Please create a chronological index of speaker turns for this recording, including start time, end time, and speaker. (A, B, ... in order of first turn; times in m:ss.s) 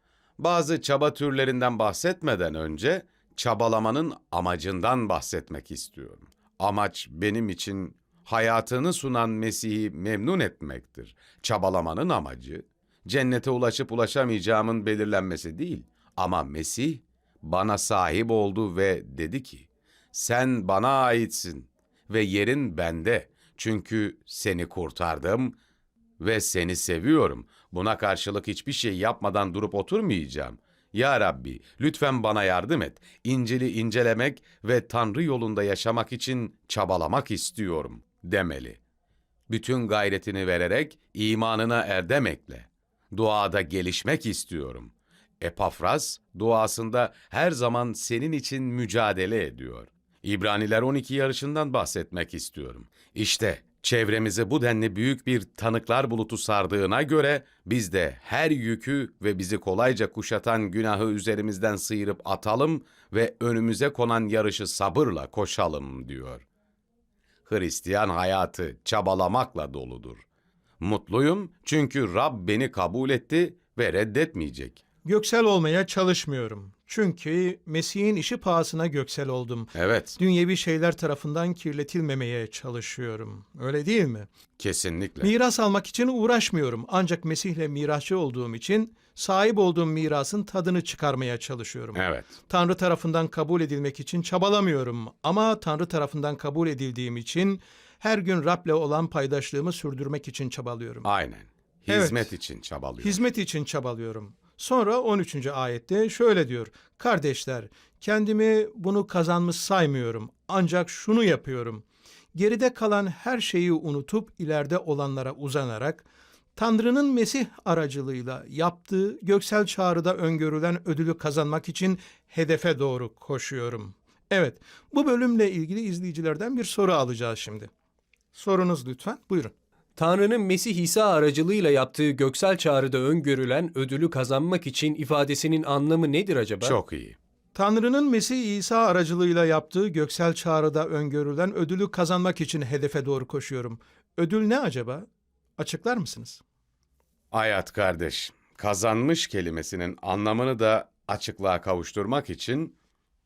0:00.4-0:25.6 A
0:26.2-0:38.8 A
0:39.5-1:06.4 A
1:07.4-1:10.2 A
1:10.8-1:14.8 A
1:15.0-1:24.3 B
1:19.7-1:20.2 A
1:24.6-1:25.3 A
1:25.2-1:41.1 B
1:31.9-1:32.3 A
1:41.0-1:43.2 A
1:41.9-1:42.3 B
1:43.0-1:56.0 B
1:56.6-2:07.7 B
2:08.3-2:09.5 B
2:10.0-2:16.8 C
2:16.6-2:17.2 A
2:17.5-2:25.1 B
2:25.6-2:26.4 B
2:27.3-2:32.8 A